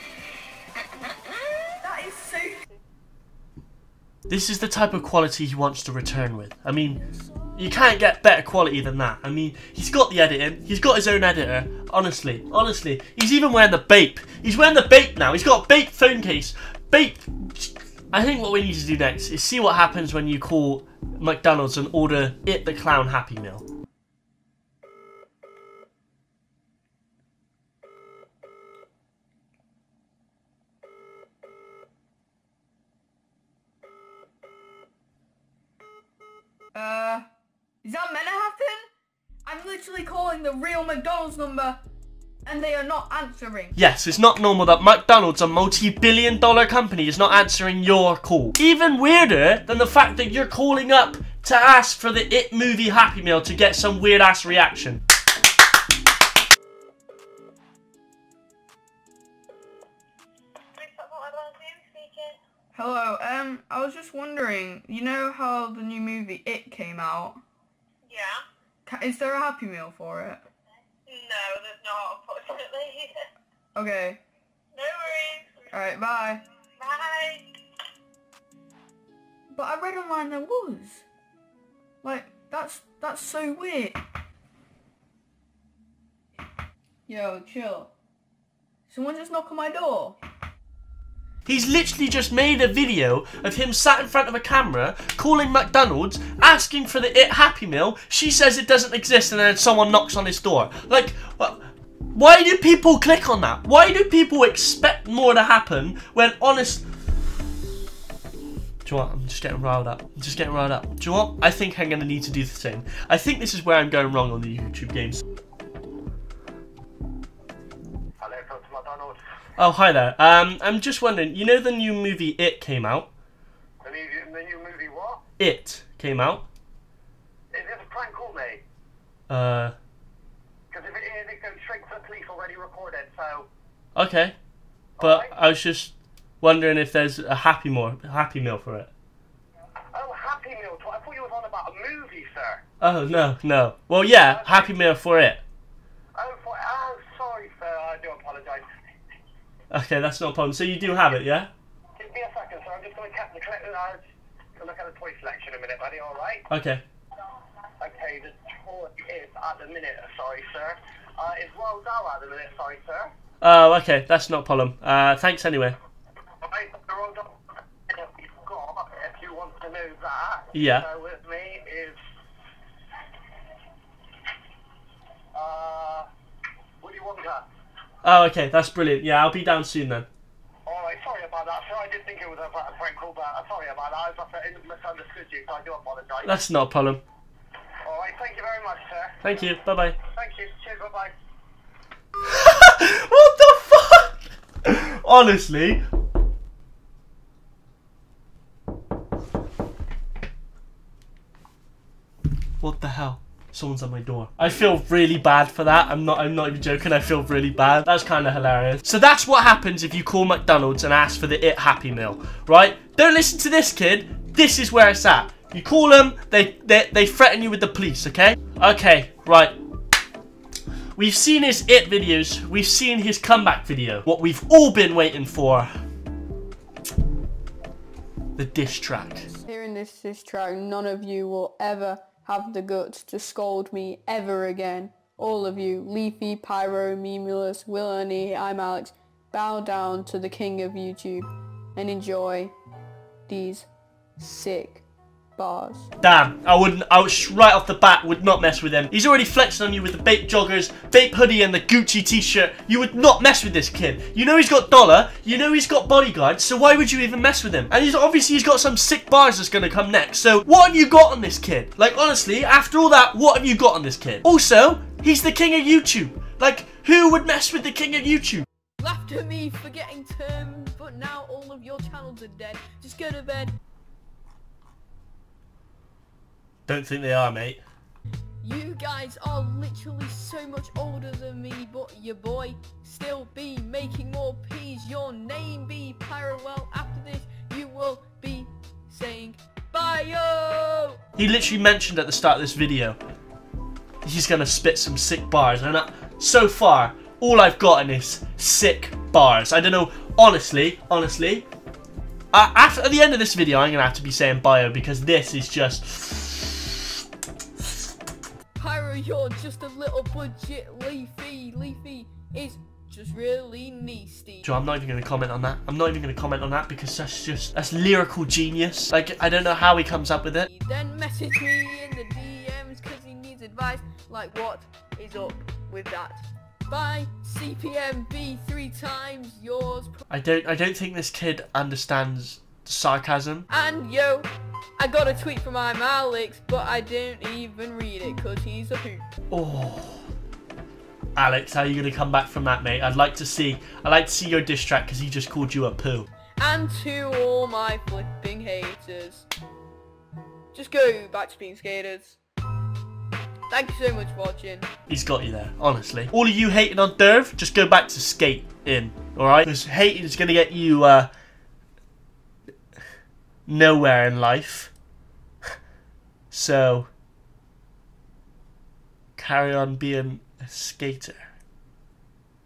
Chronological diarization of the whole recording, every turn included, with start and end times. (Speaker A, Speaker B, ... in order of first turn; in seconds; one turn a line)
Speaker A: 1.8-2.6
Speaker B: 4.3-7.0
Speaker B: 7.5-23.6
Speaker A: 36.7-37.3
Speaker A: 37.8-38.9
Speaker A: 39.4-41.8
Speaker A: 42.4-43.8
Speaker B: 43.8-55.0
Speaker C: 60.8-62.4
Speaker A: 62.7-67.4
Speaker C: 68.1-68.4
Speaker A: 68.8-70.4
Speaker C: 71.1-73.2
Speaker A: 73.7-74.2
Speaker C: 74.7-75.7
Speaker A: 75.7-76.4
Speaker C: 76.8-77.5
Speaker A: 79.5-81.0
Speaker A: 82.0-84.0
Speaker A: 87.1-87.9
Speaker A: 88.9-90.2
Speaker B: 91.5-101.6
Speaker B: 102.1-106.8
Speaker B: 108.8-115.2
Speaker D: 118.2-119.2
Speaker B: 119.6-123.1
Speaker D: 123.8-125.2
Speaker B: 125.4-126.5
Speaker D: 127.5-128.6
Speaker B: 129.3-129.7
Speaker D: 130.7-133.5
Speaker B: 133.9-134.3
Speaker D: 135.0-135.3
Speaker B: 135.0-138.9
Speaker D: 139.9-142.6
Speaker B: 142.8-145.4
Speaker D: 144.3-144.7
Speaker D: 146.2-148.7
Speaker B: 149.7-151.5
Speaker D: 152.0-154.0
Speaker D: 154.6-156.4
Speaker B: 156.5-156.8
Speaker D: 157.8-163.1
Speaker B: 163.4-165.8
Speaker D: 166.4-167.3
Speaker D: 167.9-172.0
Speaker B: 170.5-170.8
Speaker D: 175.3-176.1
Speaker D: 176.8-177.4
Speaker B: 178.0-180.1
Speaker D: 180.7-186.4
Speaker B: 186.2-187.0
Speaker D: 187.8-189.2
Speaker B: 189.2-190.0
Speaker D: 190.1-191.1
Speaker B: 192.2-195.8
Speaker B: 202.6-219.5
Speaker B: 220.9-225.7
Speaker B: 228.3-229.3
Speaker A: 229.3-242.5
Speaker A: 243.3-243.7
Speaker A: 244.2-244.8
Speaker A: 245.3-245.9
Speaker B: 246.0-268.5
Speaker A: 268.8-273.6
Speaker B: 276.7-277.6
Speaker A: 278.4-291.0
Speaker B: 291.2-293.0
Speaker B: 294.0-301.4
Speaker B: 302.3-306.9
Speaker A: 308.6-314.5
Speaker B: 314.4-320.5
Speaker A: 320.4-330.0
Speaker B: 330.1-333.5
Speaker A: 333.5-339.1
Speaker B: 339.3-340.0
Speaker B: 341.1-346.1
Speaker A: 346.4-349.3
Speaker A: 350.5-352.2
Speaker A: 353.5-354.7
Speaker B: 354.9-361.1
Speaker B: 363.4-364.7
Speaker B: 366.3-366.9
Speaker B: 369.1-371.3